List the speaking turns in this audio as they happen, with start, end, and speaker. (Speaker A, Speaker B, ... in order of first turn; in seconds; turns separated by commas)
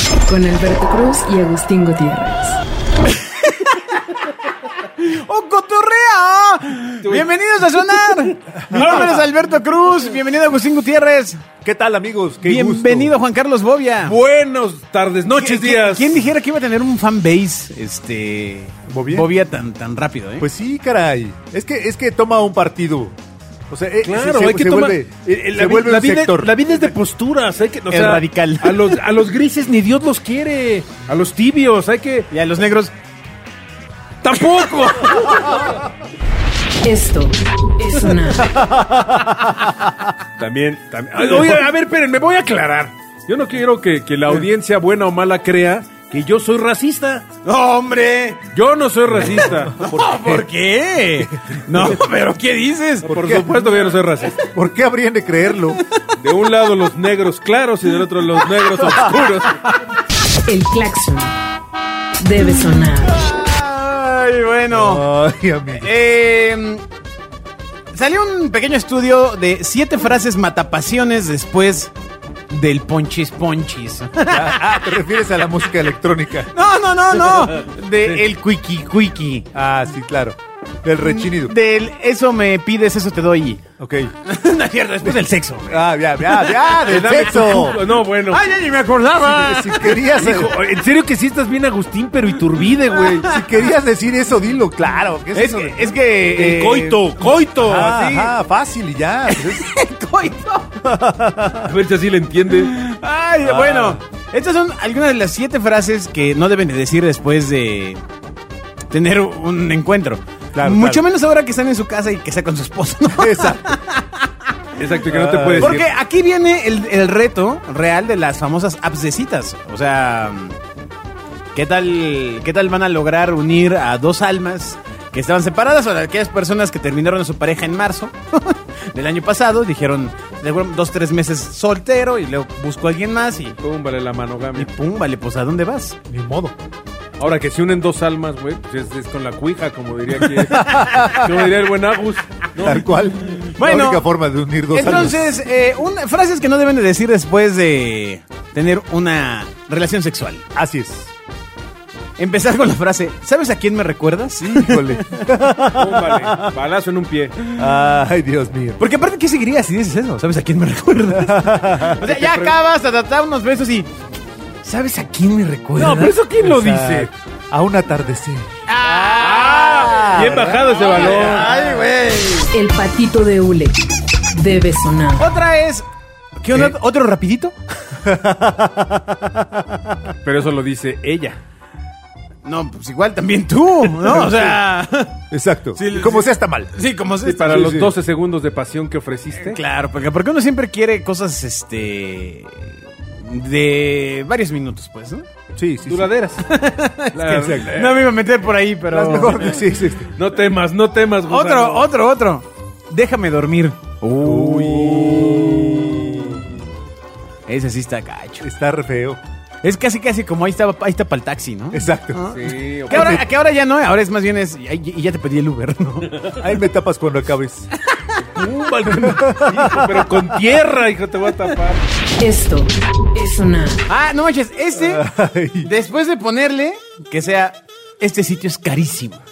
Speaker A: 0.3-2.6, Speaker B: 3.0-4.2, Speaker B: 4.8-11.5, Speaker C: 7.0-7.3, Speaker D: 8.6-9.1, Speaker C: 8.7-9.3, Speaker D: 11.6-13.2, Speaker B: 12.4-14.2, Speaker C: 14.0-16.2, Speaker B: 15.4-20.5, Speaker D: 18.9-19.3, Speaker D: 20.4-23.2, Speaker D: 23.7-26.5, Speaker C: 24.0-32.3, Speaker B: 27.9-29.0, Speaker B: 32.3-32.9, Speaker C: 34.2-35.7, Speaker A: 36.8-38.5, Speaker B: 38.5-39.6, Speaker C: 40.4-47.3, Speaker B: 47.4-48.5, Speaker C: 48.5-49.9, Speaker B: 49.2-53.1, Speaker D: 49.3-50.5, Speaker C: 53.0-54.4, Speaker D: 53.0-53.6, Speaker D: 54.4-55.8, Speaker B: 55.7-56.1, Speaker C: 56.2-59.7, Speaker B: 58.6-59.8, Speaker A: 60.5-61.3, Speaker A: 62.2-63.2, Speaker B: 63.0-65.1, Speaker D: 64.7-65.9, Speaker B: 65.7-66.8, Speaker B: 67.9-71.9, Speaker B: 72.5-75.0, Speaker D: 74.3-76.5, Speaker B: 76.5-79.5, Speaker D: 79.5-81.5, Speaker B: 81.0-83.6, Speaker D: 83.8-84.1, Speaker B: 84.2-90.0, Speaker D: 85.0-87.8, Speaker C: 86.9-88.4, Speaker D: 89.2-90.5, Speaker C: 90.2-93.3, Speaker B: 92.9-93.6, Speaker D: 93.2-96.7, Speaker B: 95.3-98.3, Speaker C: 96.3-98.1, Speaker D: 97.6-99.7, Speaker B: 99.3-101.0, Speaker D: 100.9-101.7, Speaker C: 101.6-102.8, Speaker B: 102.5-108.0, Speaker D: 103.4-104.0, Speaker B: 108.9-114.5, Speaker D: 110.5-111.0, Speaker D: 113.1-113.8, Speaker C: 114.8-115.9, Speaker D: 115.1-115.8, Speaker B: 115.6-120.6, Speaker B: 121.5-133.6, Speaker C: 133.6-134.7, Speaker B: 134.6-136.0, Speaker D: 136.1-136.6, Speaker C: 137.2-142.9, Speaker D: 140.4-141.4, Speaker D: 142.6-145.3, Speaker B: 143.6-144.0, Speaker B: 144.7-150.4, Speaker D: 150.6-151.1, Speaker B: 152.2-155.2, Speaker D: 154.4-156.5, Speaker C: 155.7-157.4, Speaker D: 157.6-158.8, Speaker B: 158.8-163.9, Speaker D: 161.1-162.1, Speaker C: 162.0-162.6, Speaker B: 164.6-166.1, Speaker C: 165.8-167.1, Speaker D: 165.8-171.8, Speaker B: 168.7-172.5, Speaker C: 169.0-171.5, Speaker A: 172.5-173.8, Speaker A: 174.3-175.3, Speaker B: 175.2-175.9, Speaker B: 176.4-177.9, Speaker D: 178.0-179.1, Speaker C: 180.2-181.4, Speaker B: 182.4-185.2, Speaker C: 184.0-184.5, Speaker D: 185.3-186.7, Speaker B: 185.8-187.8, Speaker C: 187.2-189.6, Speaker D: 187.5-187.9, Speaker B: 189.4-195.3, Speaker D: 195.6-196.1, Speaker C: 195.9-196.4, Speaker B: 196.4-199.6, Speaker C: 197.1-198.1, Speaker D: 197.3-197.8, Speaker D: 198.9-200.1, Speaker C: 200.1-201.9, Speaker B: 201.3-205.9, Speaker D: 204.2-206.5, Speaker B: 207.5-208.4, Speaker D: 208.4-209.2, Speaker B: 209.6-216.3, Speaker D: 211.7-212.4, Speaker C: 212.3-213.2, Speaker D: 212.9-213.3, Speaker D: 216.4-217.7, Speaker C: 218.4-221.8, Speaker D: 218.9-220.4, Speaker A: 222.2-223.9, Speaker B: 223.9-225.0, Speaker D: 224.8-225.7, Speaker B: 225.6-229.2